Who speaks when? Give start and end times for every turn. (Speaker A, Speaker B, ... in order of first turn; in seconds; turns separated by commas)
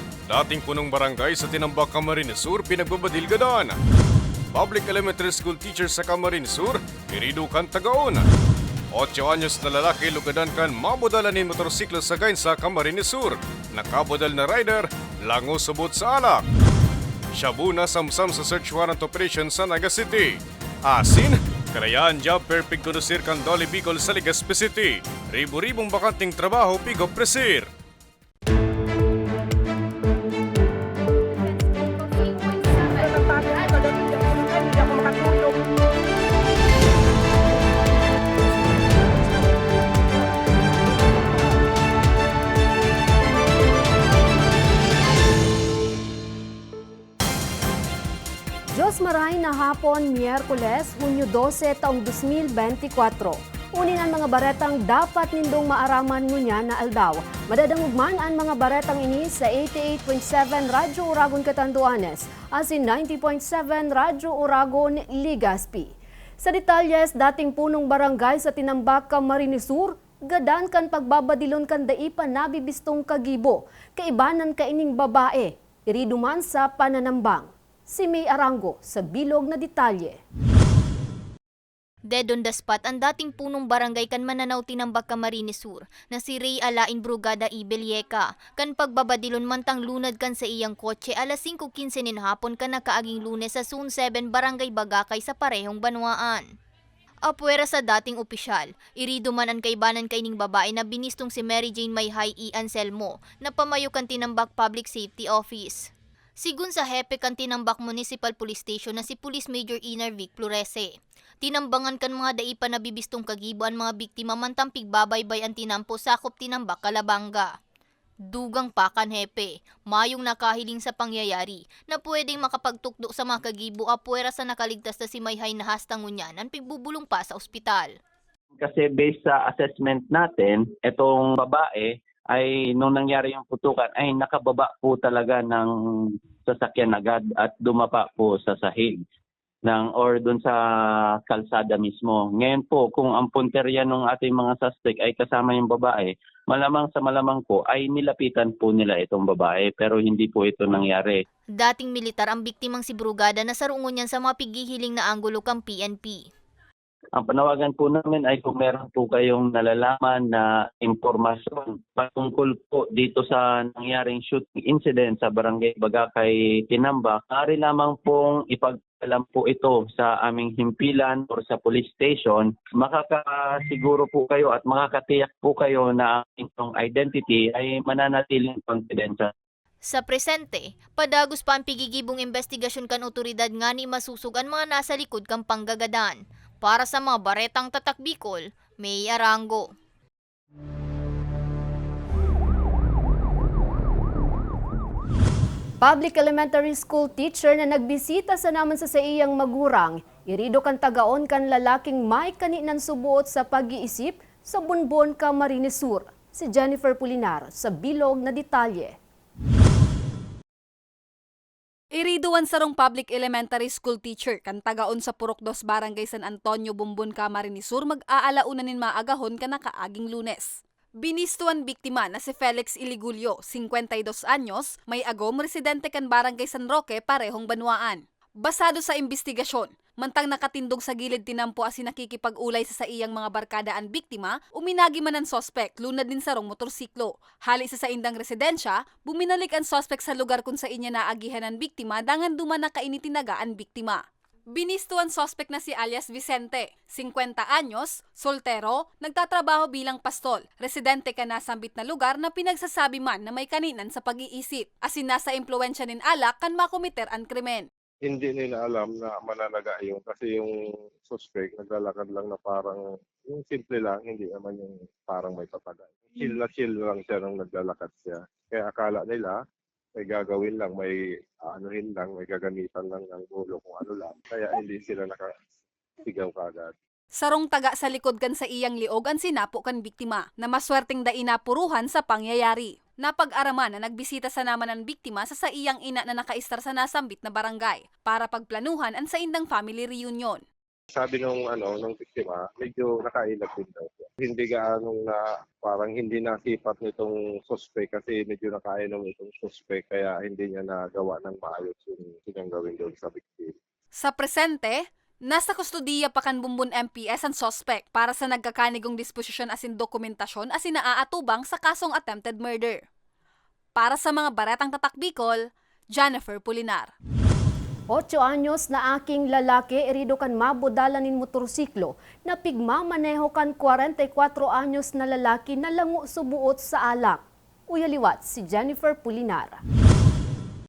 Speaker A: 0.3-3.7, Speaker A: 4.5-8.2, Speaker A: 8.9-16.4, Speaker A: 17.3-27.7, Speaker B: 48.7-80.2, Speaker C: 82.1-96.4, Speaker C: 97.3-110.9, Speaker C: 111.4-117.5, Speaker C: 118.3-127.9, Speaker D: 128.6-135.7, Speaker D: 136.5-139.0, Speaker D: 139.6-140.6, Speaker D: 141.3-151.2, Speaker C: 151.5-156.2, Speaker D: 157.2-179.3, Speaker C: 179.8-189.6, Speaker B: 195.8-208.9, Speaker E: 211.9-257.7, Speaker F: 258.1-260.5, Speaker F: 261.1-269.3, Speaker F: 270.0-270.9, Speaker F: 271.5-275.2, Speaker F: 276.1-276.7, Speaker E: 277.1-290.4, Speaker F: 290.9-303.5, Speaker E: 304.0-312.8, Speaker E: 313.7-316.9, Speaker B: 317.9-329.6